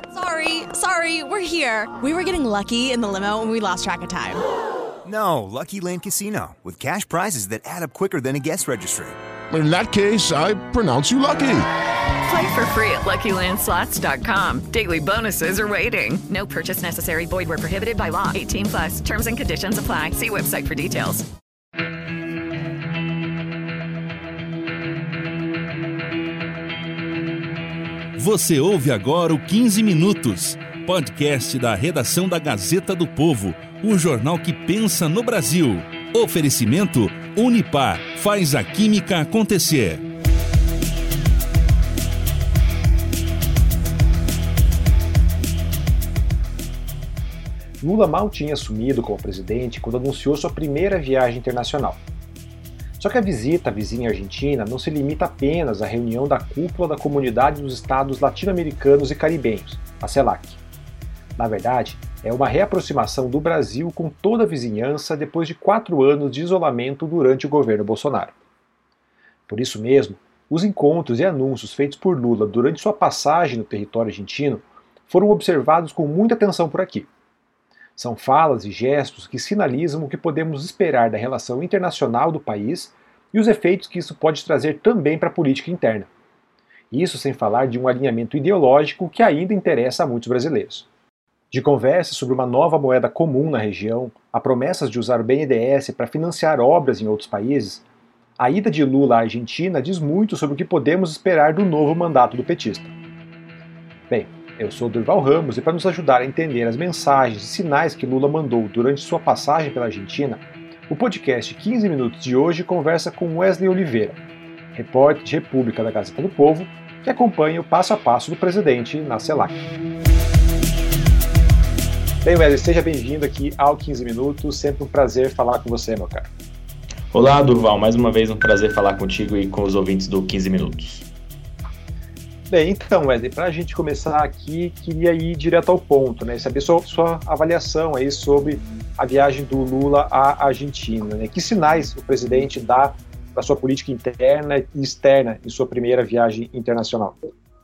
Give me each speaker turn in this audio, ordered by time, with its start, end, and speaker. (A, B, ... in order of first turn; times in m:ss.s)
0:00.1-0:04.4 A
0:05.1-0:09.1 B
0:09.5-0:11.7 C
0:12.2-0:21.2 D
0:28.2-0:40.0 E
0:47.8-0:52.0 F
0:53.0-1:00.6 F
1:01.4-1:08.3 F
1:09.5-1:17.1 F
1:18.0-1:26.1 F
1:26.9-1:30.9 F
1:31.5-1:37.8 F
1:38.4-1:42.9 F
1:44.1-1:54.2 F
1:54.8-1:59.6 F
2:02.2-2:06.3 F
2:07.1-2:11.1 G
2:12.5-2:27.2 F